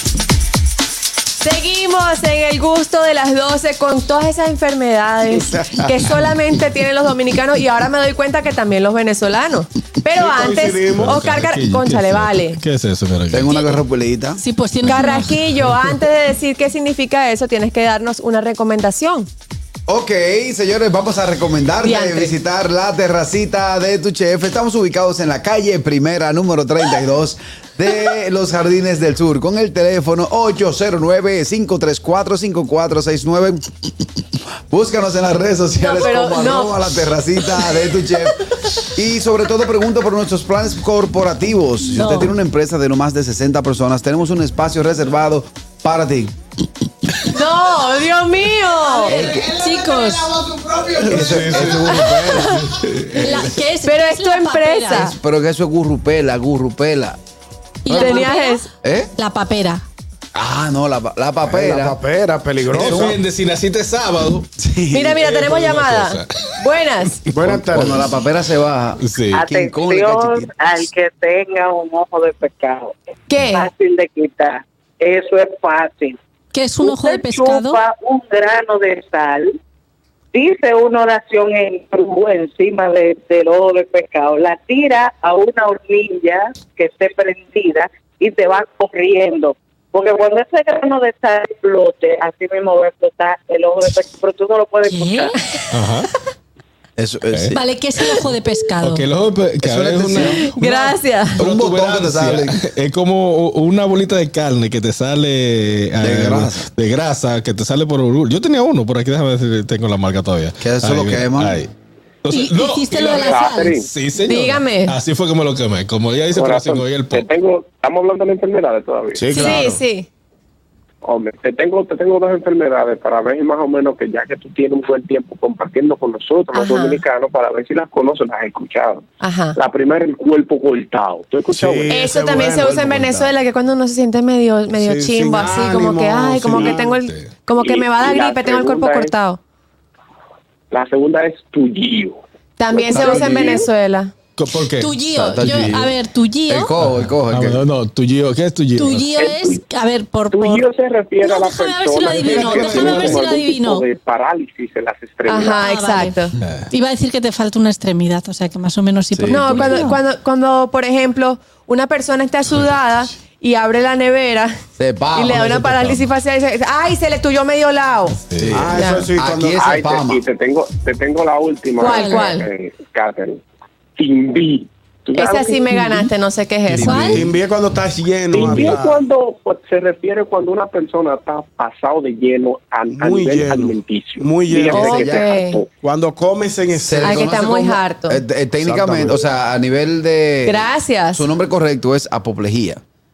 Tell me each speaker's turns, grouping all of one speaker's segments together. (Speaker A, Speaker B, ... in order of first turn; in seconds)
Speaker A: 1.4-12.6, 14.9-19.3, 21.8-22.3, 35.8-36.8, 47.3-50.3, 52.0-52.5, 53.8-55.1, 57.9-58.7, 64.9-67.2, 73.3-73.7, 100.4-101.4, 114.2-114.9, 119.3-120.1, 126.5-127.0, 129.2-129.6, 131.9-139.4, 142.6-144.1, 155.3-156.3, 159.3-164.6, 165.1-168.2, 168.8-169.1, 171.8-172.5, 175.2-177.2, 184.7-185.6, 187.0-188.2, 190.5-191.2
Speaker B: 10.1-11.2, 61.5-63.2, 67.3-68.1, 119.1-119.8, 131.5-132.7, 134.7-137.0, 168.5-169.6, 176.9-179.0, 182.9-185.2, 185.8-187.5, 188.6-189.2
Speaker C: 10.9-13.6, 51.0-53.4, 62.7-64.5, 65.2-66.5, 69.0-69.5, 95.7-96.1, 98.8-111.7, 112.2-117.3, 136.9-137.3, 144.4-145.8, 146.8-149.1, 152.3-153.2, 156.4-156.7, 168.3-168.6
Speaker D: 13.3-14.4, 19.9-33.7, 34.7-46.3, 49.0-49.8, 51.0-52.8, 54.9-57.2, 57.9-58.3, 58.8-59.1, 60.3-62.0, 62.7-63.2, 64.6-65.3, 67.4-70.5, 97.0-97.6, 99.6-100.5, 101.4-102.6, 106.0-106.7, 110.6-111.6, 132.5-133.3, 142.9-143.6, 145.1-145.9, 146.5-147.6, 159.1-159.9, 164.8-166.0, 168.4-170.2, 176.7-177.1, 184.8-185.3, 186.8-192.8
Speaker E: 14.4-15.3, 41.9-42.3, 49.6-50.1, 53.2-55.0, 57.8-58.6, 59.2-59.8, 76.5-77.8, 94.8-95.4, 97.5-99.0, 112.3-113.8, 144.8-146.7, 148.8-150.6, 151.2-153.8, 155.4-156.2, 156.7-160.0, 171.8-172.3, 176.8-177.2
Speaker F: 69.3-73.0, 73.5-76.2, 76.8-79.6, 80.3-95.3
Speaker G: 112.9-113.9, 116.3-119.3, 121.0-132.0, 137.6-139.1, 140.7-142.2, 142.7-143.6, 149.3-149.5, 150.3-155.7, 169.6-173.4, 174.0-175.8, 178.3-185.7